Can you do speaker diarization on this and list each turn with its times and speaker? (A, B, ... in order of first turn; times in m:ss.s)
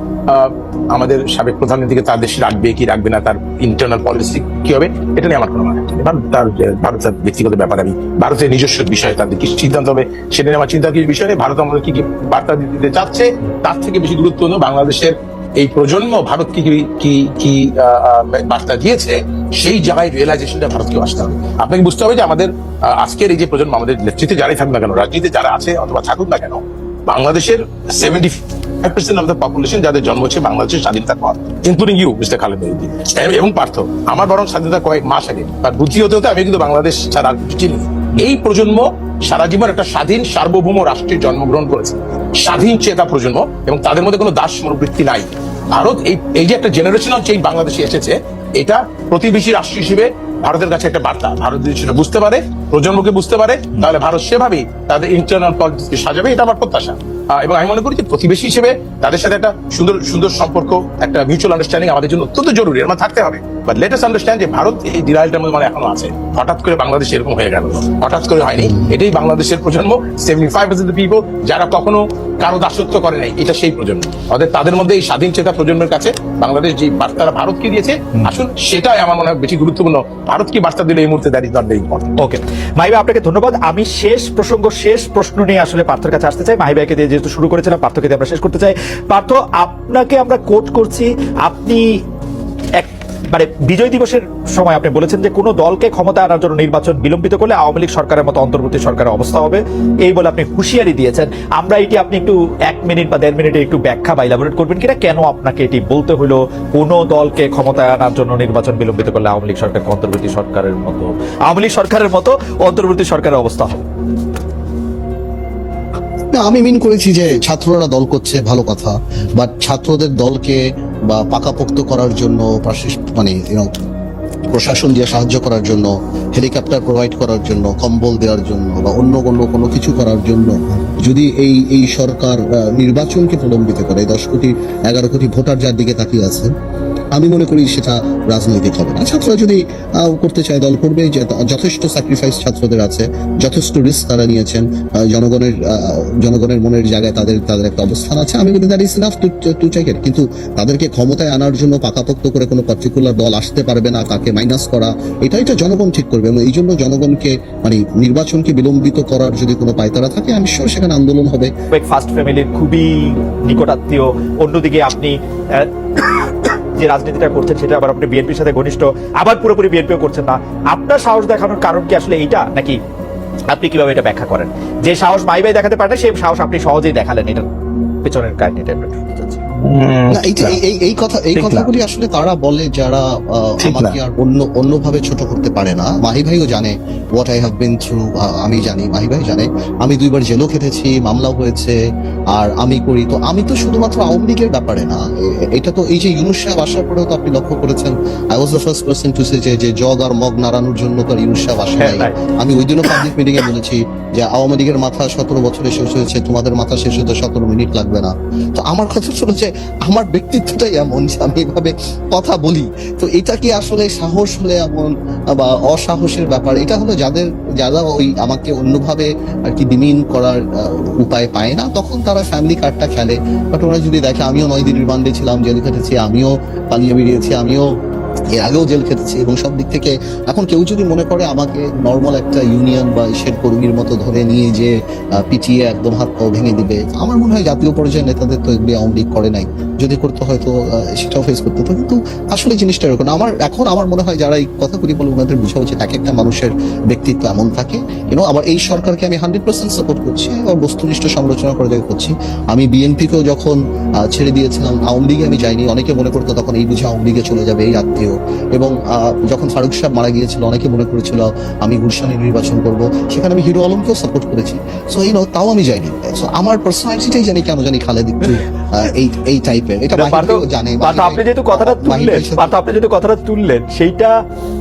0:00.3-1:22.1 A
1:22.2-1:32.0 B
1:32.8-1:53.8 B
1:56.3-2:03.8 C
2:04.5-2:16.5 C
2:17.1-2:41.5 C
2:41.7-2:52.8 B
2:53.5-2:57.5 B
2:58.0-2:59.4 B
2:59.6-3:00.6 A
3:00.1-3:11.8 C
3:01.4-3:01.7 A
3:03.6-3:04.0 A
3:12.3-3:47.7 C
3:21.8-3:22.1 B
3:48.3-4:32.6 C
4:30.0-4:34.1 B